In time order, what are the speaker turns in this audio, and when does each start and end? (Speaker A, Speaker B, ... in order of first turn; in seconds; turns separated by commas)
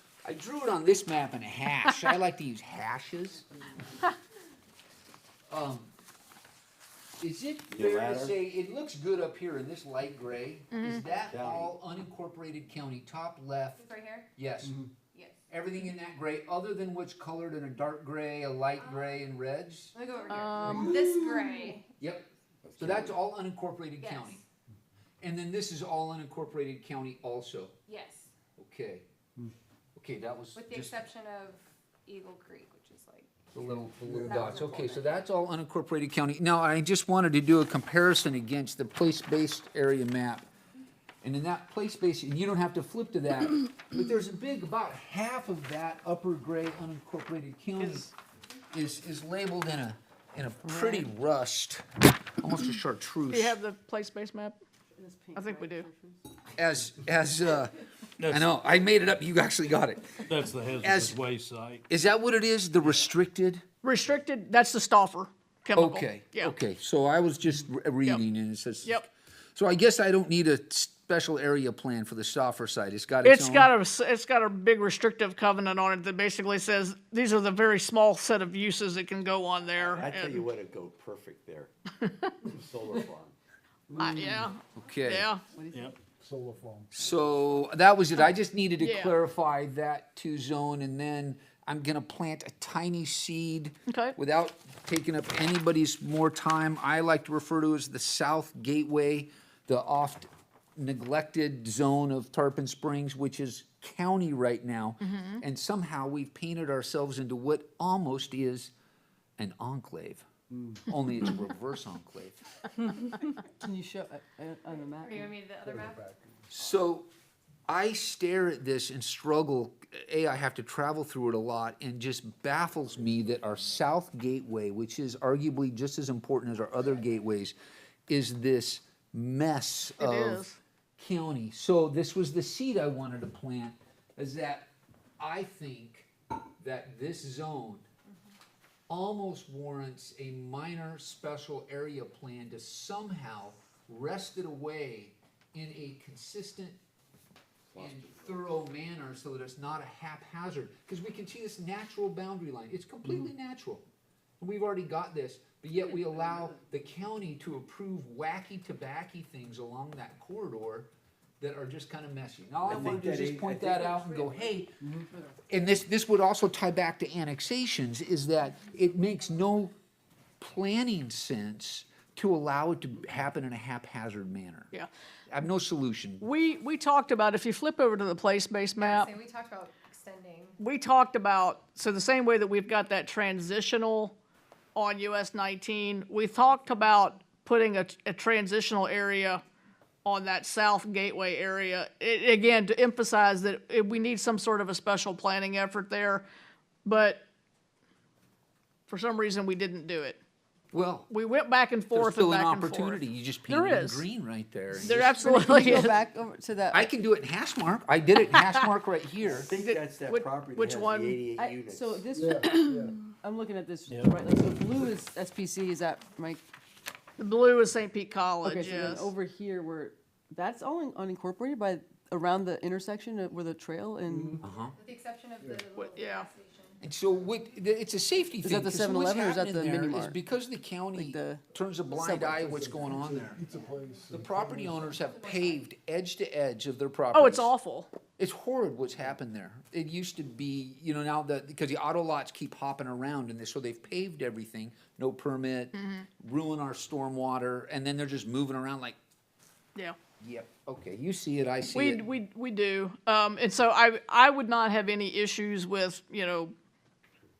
Speaker A: 0.2-3.5, Speaker B: 1.9-2.1, Speaker A: 5.5-5.9, Speaker A: 7.2-14.8, Speaker C: 7.7-8.3, Speaker B: 10.7-11.1, Speaker C: 11.2-11.7, Speaker D: 13.8-14.3, Speaker D: 15.1-15.4, Speaker A: 15.5-19.9, Speaker D: 18.8-19.2, Speaker D: 19.9-21.9, Speaker B: 20.3-21.1, Speaker A: 20.7-20.9, Speaker A: 22.0-22.2, Speaker A: 22.8-24.4, Speaker D: 24.0-24.4, Speaker A: 25.2-27.7, Speaker D: 27.9-28.3, Speaker A: 28.6-29.0, Speaker A: 29.9-31.1, Speaker D: 30.5-33.5, Speaker A: 33.5-40.5, Speaker E: 33.8-34.5, Speaker D: 34.2-35.3, Speaker A: 41.2-48.1, Speaker B: 47.8-48.1, Speaker A: 48.7-51.8, Speaker F: 50.6-51.1, Speaker A: 52.4-53.5, Speaker B: 53.3-54.6, Speaker F: 54.9-56.2, Speaker B: 55.3-55.9, Speaker A: 56.5-57.7, Speaker G: 58.2-58.5, Speaker A: 58.2-61.2, Speaker G: 60.3-61.8, Speaker A: 61.9-63.6, Speaker B: 63.8-66.5, Speaker A: 65.8-73.7, Speaker B: 73.2-80.5, Speaker C: 79.7-81.7, Speaker B: 82.0-82.3, Speaker C: 82.5-83.3, Speaker B: 84.0-85.4, Speaker A: 84.0-85.3, Speaker F: 85.5-86.0, Speaker E: 86.2-86.9, Speaker A: 86.9-108.7, Speaker B: 88.8-89.1, Speaker B: 93.9-94.1, Speaker B: 105.0-105.4, Speaker A: 109.4-110.3, Speaker A: 110.8-112.4, Speaker F: 113.5-115.4, Speaker D: 114.7-116.1, Speaker E: 115.6-116.1, Speaker A: 116.5-117.1, Speaker A: 117.7-127.5, Speaker A: 128.1-130.4, Speaker B: 130.0-130.6, Speaker A: 131.0-136.1, Speaker A: 136.6-137.8, Speaker A: 138.9-146.8, Speaker C: 147.7-148.4, Speaker A: 147.8-153.8, Speaker A: 154.4-164.8, Speaker C: 162.6-164.0, Speaker D: 164.0-164.4, Speaker A: 165.5-169.7, Speaker A: 170.4-174.7, Speaker A: 175.3-176.2, Speaker B: 176.2-179.1, Speaker D: 178.8-180.6, Speaker B: 180.6-184.2, Speaker B: 184.7-189.4, Speaker B: 190.0-196.2, Speaker B: 196.8-197.2, Speaker B: 198.9-200.2, Speaker A: 200.7-201.1, Speaker B: 201.1-204.1, Speaker A: 201.9-205.3, Speaker B: 204.8-205.9, Speaker F: 204.9-206.9, Speaker A: 206.7-209.5, Speaker B: 208.2-208.6, Speaker C: 209.2-212.1, Speaker B: 209.5-211.2, Speaker F: 211.3-216.4, Speaker E: 212.1-212.9, Speaker B: 217.2-219.1, Speaker F: 218.4-224.4, Speaker E: 224.1-224.4, Speaker A: 224.4-224.8, Speaker D: 224.8-226.8, Speaker B: 225.7-226.3, Speaker A: 226.8-233.4, Speaker F: 228.4-230.2, Speaker F: 230.9-232.6, Speaker E: 232.4-234.7, Speaker D: 233.3-235.6, Speaker A: 234.1-237.5, Speaker B: 237.1-237.9, Speaker A: 238.2-248.9, Speaker B: 245.7-246.1, Speaker A: 250.2-252.0, Speaker B: 251.7-256.5